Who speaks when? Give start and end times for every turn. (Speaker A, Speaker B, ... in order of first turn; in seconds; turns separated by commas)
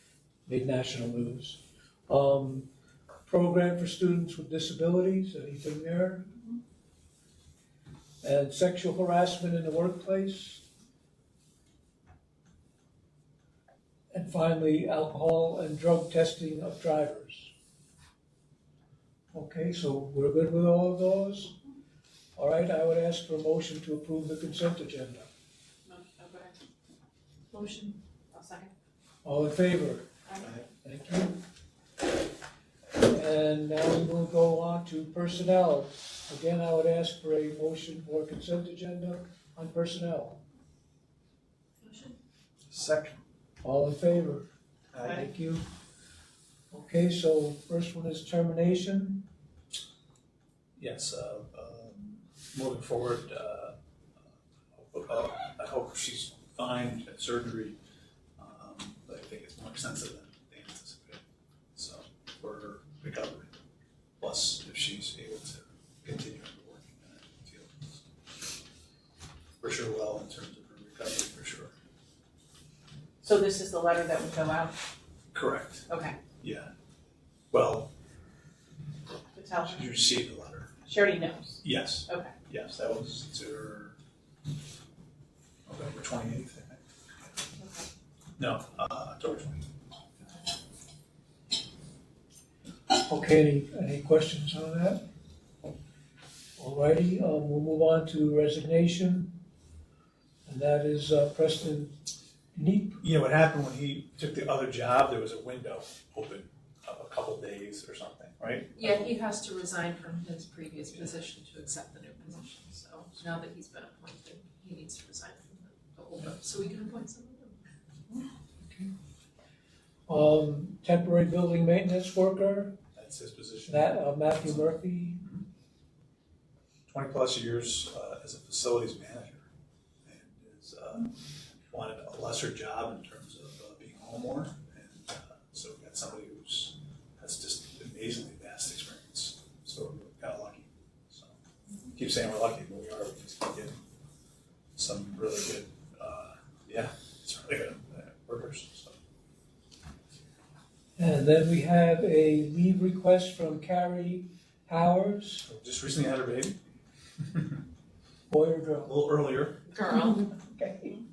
Speaker A: 0.5-2.7, Speaker A: 3.3-6.3, Speaker A: 8.2-10.6, Speaker A: 14.1-17.5, Speaker A: 19.3-21.6, Speaker A: 22.4-25.3, Speaker B: 25.9-26.6, Speaker C: 27.5-28.0, Speaker B: 28.3-28.7, Speaker A: 29.2-30.1, Speaker A: 30.8-31.4, Speaker A: 33.0-40.4, Speaker C: 41.8-42.2, Speaker D: 42.7-43.2, Speaker A: 43.6-44.5, Speaker D: 44.9-45.3, Speaker A: 45.0-45.7, Speaker A: 46.7-49.3, Speaker D: 50.8-53.8, Speaker D: 54.7-57.8, Speaker D: 58.4-61.2, Speaker D: 61.8-63.5, Speaker D: 64.2-68.0, Speaker D: 69.6-71.7, Speaker B: 73.2-74.8, Speaker D: 75.3-75.9, Speaker B: 75.9-76.2, Speaker D: 76.4-76.7, Speaker D: 77.5-77.9, Speaker B: 79.3-80.0, Speaker D: 79.7-80.7, Speaker B: 80.9-82.3, Speaker D: 81.6-84.0, Speaker D: 85.7-86.8, Speaker B: 87.6-87.9, Speaker D: 88.4-89.7, Speaker A: 93.0-95.0, Speaker A: 96.6-99.4, Speaker A: 100.5-102.0, Speaker A: 102.5-103.0, Speaker D: 103.0-109.1, Speaker C: 108.7-117.6, Speaker A: 118.6-118.9, Speaker A: 120.1-122.8, Speaker D: 123.0-124.1, Speaker A: 123.7-125.2, Speaker D: 126.9-129.5, Speaker D: 130.1-141.3, Speaker D: 141.9-143.8, Speaker D: 144.8-148.9, Speaker A: 151.0-155.5, Speaker D: 155.5-156.6, Speaker A: 158.3-158.9, Speaker D: 158.9-159.7, Speaker C: 159.7-160.3, Speaker A: 160.3-161.0